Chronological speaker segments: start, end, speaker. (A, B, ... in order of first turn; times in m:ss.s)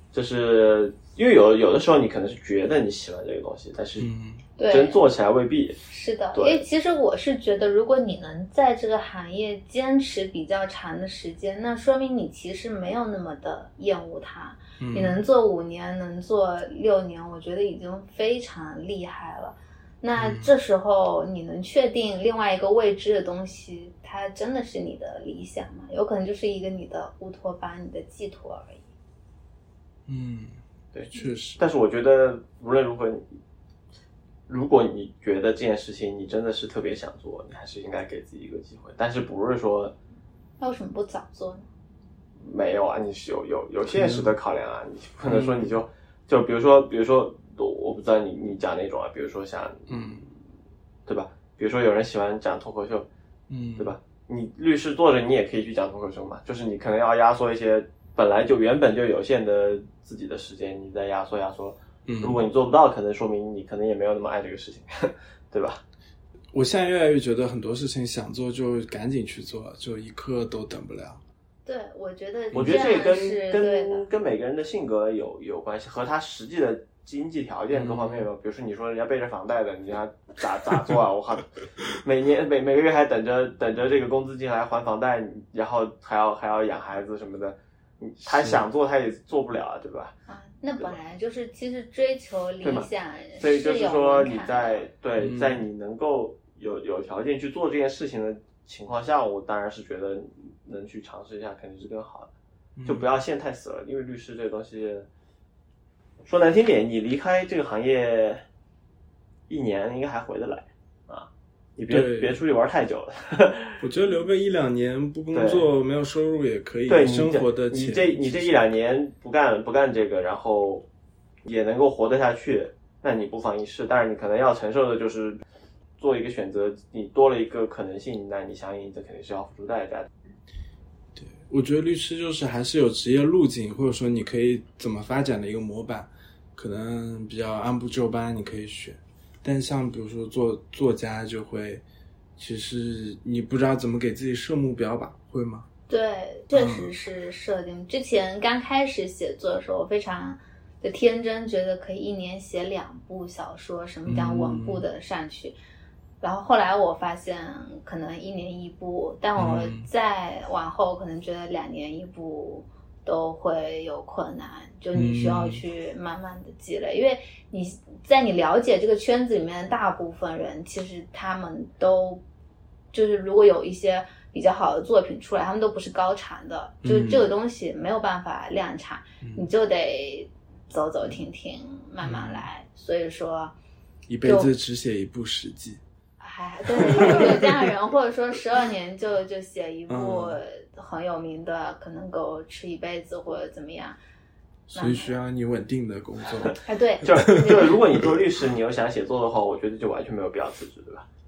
0:00.1-0:04.1 A
0:04.0-0:04.4 B
0:04.6-0:05.0 C
0:04.7-0:05.8 A
0:05.9-0:28.9 C
0:06.3-0:06.6 A
0:14.8-0:15.2 B
0:20.2-0:20.5 B
0:30.1-0:30.6 B
0:30.9-0:33.3 A
0:31.1-0:31.6 B
0:34.5-0:39.9 A
0:40.6-0:41.7 C
0:42.4-0:49.9 A
0:43.9-0:44.3 B
0:45.2-0:45.7 B
0:49.9-0:50.3 B
0:51.1-0:53.1 A
0:53.5-0:53.9 B
0:53.8-1:05.8 A
1:02.0-1:02.4 B
1:06.5-1:11.2 B
1:11.6-1:14.1 C
1:12.5-1:12.9 B
1:12.5-1:30.1 A
1:17.7-1:18.3 B
1:28.2-1:28.6 B
1:30.3-1:34.9 C
1:32.6-1:42.3 A
1:35.2-1:35.6 B
1:42.8-1:43.1 B
1:42.8-1:45.1 A
1:46.2-1:48.4 A
1:49.5-1:53.8 A
1:51.9-1:52.4 B
1:53.8-1:58.5 B
1:55.3-1:55.7 A
1:56.9-2:00.8 A
2:01.4-2:05.4 A
2:06.0-2:10.1 A
2:11.1-2:21.8 B
2:22.4-2:25.6 B
2:25.9-2:35.6 C
2:26.5-2:26.9 B
2:34.0-2:34.8 B
2:36.2-2:52.2 C
2:39.4-2:39.9 B
2:44.9-2:45.6 B
2:52.9-3:03.5 C
2:56.8-2:57.3 B
2:59.2-2:59.5 B
3:02.0-3:02.4 B
3:04.1-3:05.8 B
3:04.2-3:04.5 C
3:06.2-3:14.0 C
3:06.6-3:07.7 B
3:09.9-3:10.4 B
3:14.7-3:17.5 B
3:14.7-3:15.1 C
3:16.4-3:21.0 A
3:16.6-3:17.7 C